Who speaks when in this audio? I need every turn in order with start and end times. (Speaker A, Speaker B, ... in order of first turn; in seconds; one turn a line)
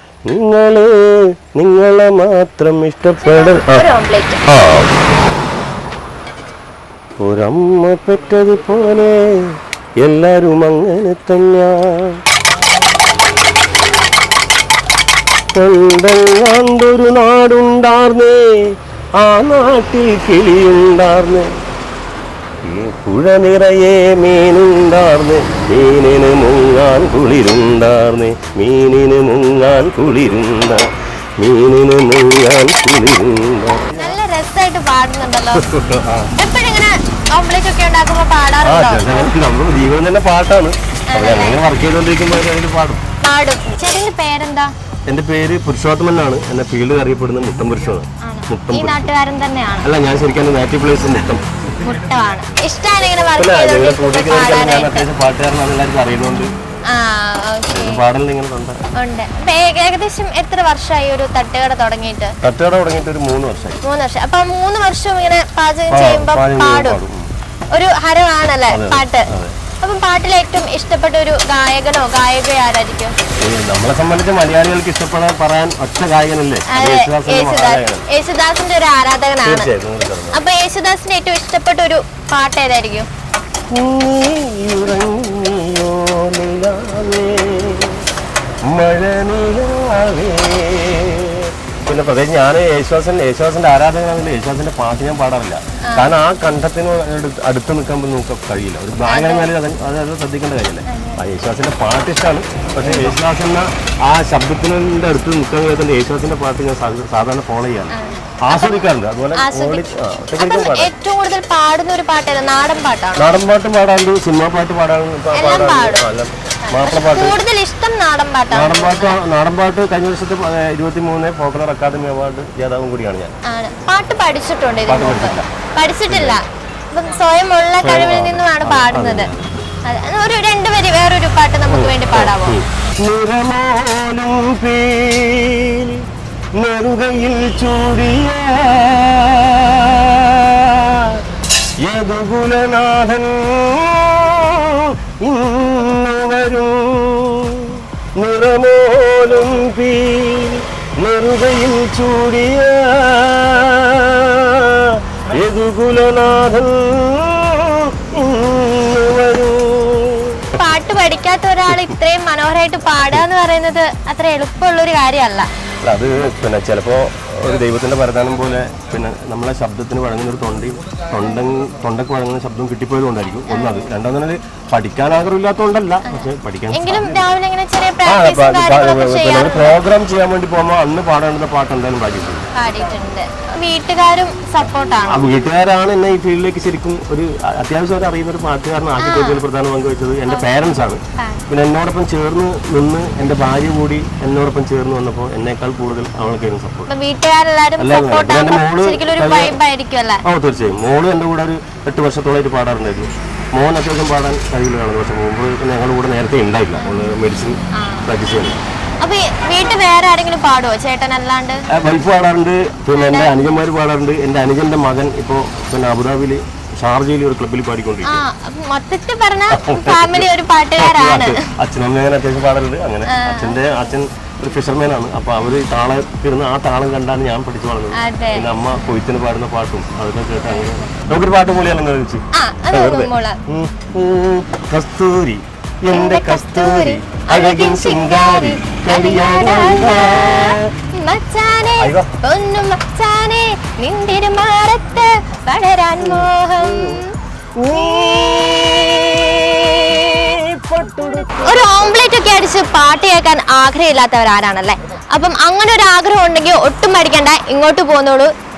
Speaker A: 0.3-3.9
Speaker B: 3.2-4.5
Speaker A: 4.5-4.9
Speaker A: 7.2-9.5
Speaker A: 10.0-12.2
Speaker A: 15.5-18.6
Speaker A: 19.2-21.5
Speaker A: 22.6-30.9
Speaker A: 31.4-34.2
Speaker B: 33.9-35.6
Speaker A: 35.5-36.3
Speaker B: 36.4-39.3
Speaker A: 38.6-43.0
Speaker B: 41.1-41.6
Speaker B: 43.2-44.7
Speaker A: 45.1-49.1
Speaker B: 48.2-49.9
Speaker A: 49.8-51.4
Speaker B: 51.8-55.1
Speaker A: 53.4-56.5
Speaker B: 56.9-58.0
Speaker A: 57.7-58.8
Speaker B: 58.9-62.3
Speaker A: 62.4-63.8
Speaker B: 63.8-67.0
Speaker A: 65.9-67.2
Speaker B: 67.7-69.3
Speaker A: 68.7-69.6
Speaker B: 69.8-73.1
Speaker A: 73.4-78.0
Speaker B: 76.7-79.7
Speaker A: 79.4-80.4
Speaker B: 80.3-83.1
Speaker A: 83.7-88.0
Speaker A: 88.7-110.9
Speaker B: 95.8-96.1
Speaker B: 99.0-99.5
Speaker B: 100.9-101.2
Speaker B: 102.8-103.2
Speaker B: 107.9-113.3
Speaker A: 113.2-117.4
Speaker B: 115.3-116.0
Speaker B: 116.7-119.2
Speaker A: 118.5-123.3
Speaker B: 123.5-129.3
Speaker A: 124.9-125.5
Speaker A: 126.1-126.4
Speaker A: 127.8-129.5
Speaker B: 129.8-132.6
Speaker A: 131.7-136.0
Speaker A: 136.5-141.2
Speaker A: 141.8-160.4
Speaker B: 160.6-165.5
Speaker A: 161.7-161.9
Speaker A: 165.8-177.2
Speaker B: 173.5-173.9
Speaker B: 176.1-179.8
Speaker A: 178.1-182.5
Speaker B: 182.5-185.3
Speaker A: 185.1-196.9
Speaker B: 189.0-189.4
Speaker B: 190.3-190.6
Speaker B: 191.2-191.4
Speaker B: 196.9-200.2
Speaker A: 197.8-199.6
Speaker A: 200.2-208.6
Speaker B: 206.8-207.0
Speaker B: 207.7-208.1
Speaker B: 209.0-211.6
Speaker A: 211.7-218.2
Speaker B: 212.9-213.4
Speaker B: 218.1-221.5
Speaker A: 219.5-240.7
Speaker B: 223.1-223.9
Speaker B: 227.9-228.5
Speaker B: 232.3-233.4
Speaker B: 235.9-247.1
Speaker A: 241.8-242.1
Speaker A: 246.0-247.0
Speaker A: 247.6-251.8
Speaker B: 247.7-248.2
Speaker B: 251.4-258.3